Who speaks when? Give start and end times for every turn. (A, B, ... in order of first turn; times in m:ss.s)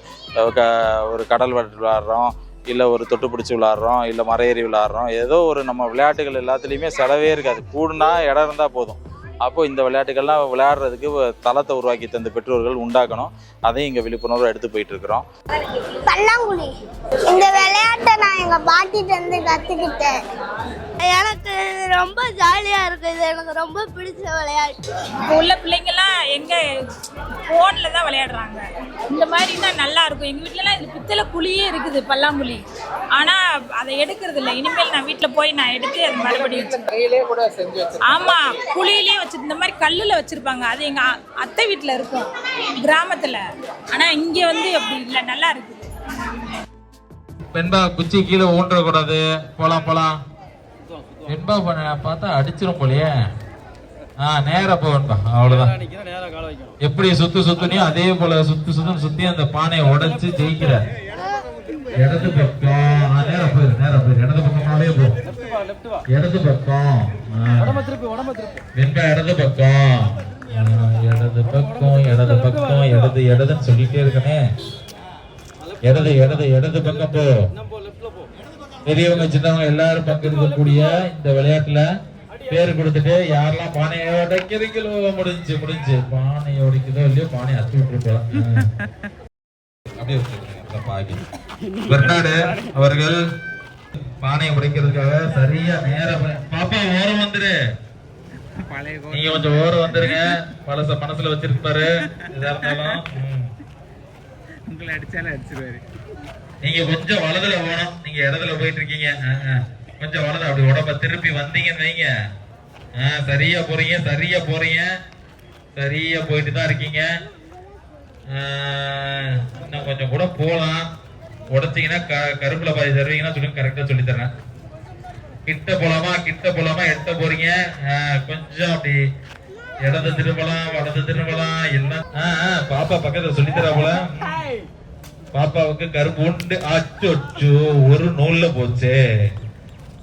0:00.4-0:15.3 A
0:16.1-0:16.7 B
0:17.3-0:20.2 B
0:21.0-0:24.8 B
0:25.3-0:26.6 C
0:27.5-0:32.6 C
0:33.2-0:36.8 C
0:36.2-0:38.4 D
0:38.0-0:42.3 C
0:42.8-0:43.4 C
0:43.9-0:45.9 C
0:47.5-0:50.2 E
0:51.3-0:53.1 E
0:54.2-0:55.7 E
0:56.8-1:00.8 E
1:02.0-1:05.2 E
1:06.1-1:07.8 E
1:08.8-1:14.4 E
1:15.8-1:17.4 E
1:18.9-1:21.8 E
1:22.5-1:28.7 E
1:30.0-1:31.2 E
1:31.8-1:33.2 E
1:34.1-1:37.5 E
1:38.7-1:40.2 F
1:39.1-1:43.5 E
1:42.2-1:43.0 F
1:44.7-1:45.8 F
1:46.6-1:52.1 E
1:53.0-1:54.9 E
1:55.8-1:57.1 E
1:58.3-2:00.9 E
2:01.5-2:04.3 E
2:05.5-2:09.0 E
2:09.8-2:14.4 E
2:15.3-2:19.0 E